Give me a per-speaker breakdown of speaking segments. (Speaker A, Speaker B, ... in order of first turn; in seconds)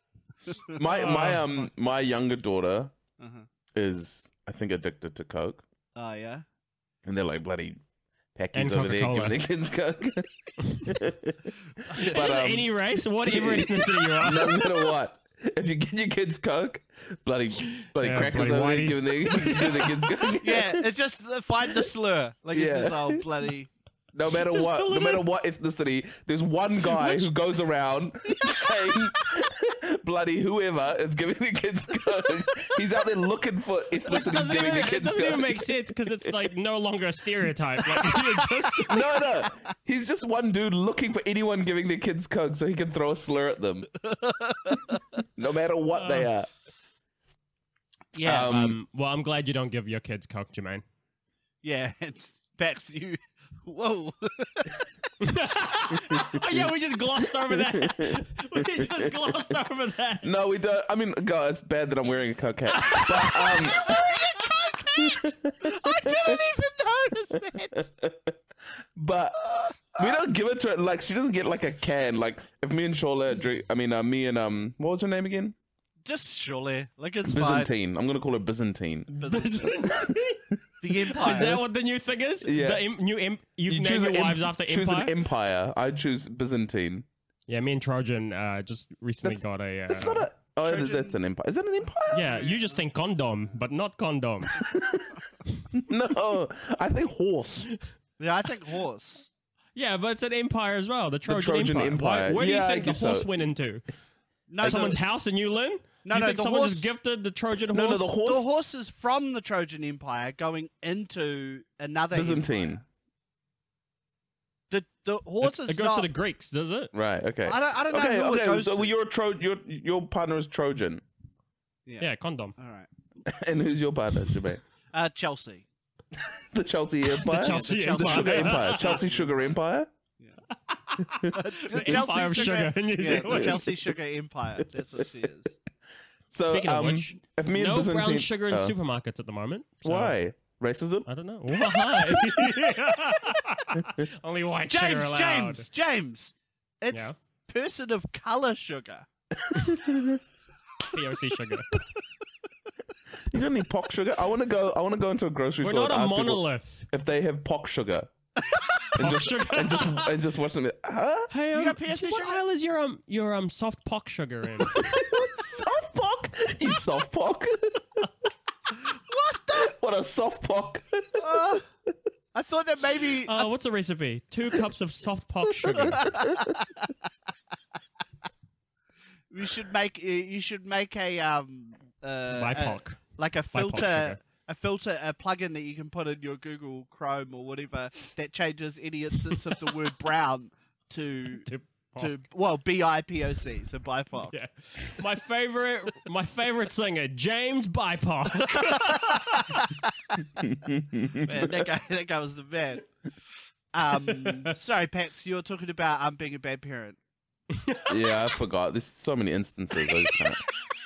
Speaker A: 0.8-2.9, 3.8-5.6, 7.0-7.8, 8.3-10.3, 10.8-20.9, 22.5-23.2, 24.1-36.4, 38.9-43.9, 45.4-46.5, 48.2-48.8, 56.2-56.7, 57.5-59.5, 60.2-64.0, 65.0-66.4, 68.0-68.3, 69.0-75.6, 77.2-79.4, 81.2-81.6, 82.4-82.9, 83.7-87.1, 89.9-92.4, 94.6-95.1, 95.7-97.7, 101.3-103.3, 107.7-108.5, 112.1-112.8, 116.9-121.0, 123.3-124.6, 126.3-129.9, 131.2-132.2, 133.2-133.7, 136.3-138.8, 139.8-142.2, 149.5-150.2, 153.3-158.1, 158.9-161.3, 164.7-167.8, 169.5-171.2, 200.5-201.3, 207.9-210.4
Speaker B: 0.9-1.6, 8.5-9.4, 10.6-10.9, 12.0-14.9, 17.8-20.3, 24.4-25.3, 26.9-27.3, 34.1-39.1, 46.0-46.3, 48.5-50.8, 55.2-60.3, 62.7-64.1, 79.3-80.4, 81.1-85.2, 87.5-90.3, 92.1-94.6, 99.8-103.8, 104.6-108.2, 115.4-116.9, 122.0-122.6, 127.2-129.0, 130.7-133.7, 136.4-140.2, 141.1-145.7, 150.9-151.8, 155.6-156.8, 159.0-160.2, 161.3-164.8, 173.2-176.1, 182.3-184.2, 191.4-192.1, 194.3-199.5, 207.6-208.0
Speaker C: 3.2-3.5, 6.0-6.4, 11.9-12.2, 20.4-23.7, 48.1-48.6, 51.6-54.7, 63.9-67.9, 69.5-70.1, 76.0-77.7, 79.2-79.8, 80.8-81.6, 90.6-91.2, 92.2-92.8, 98.2-99.3, 104.5-105.0, 106.0-106.9, 108.2-112.8, 114.7-116.1, 117.5-119.0, 121.9-122.9, 124.9-125.7, 127.4-129.5, 131.3-135.5, 144.7-149.1, 161.5-162.4, 169.1-169.6, 171.2-171.7, 172.3-173.5, 175.8-176.7, 179.3-191.5, 192.0-194.3, 198.7-200.2, 201.2-202.9, 203.7-207.0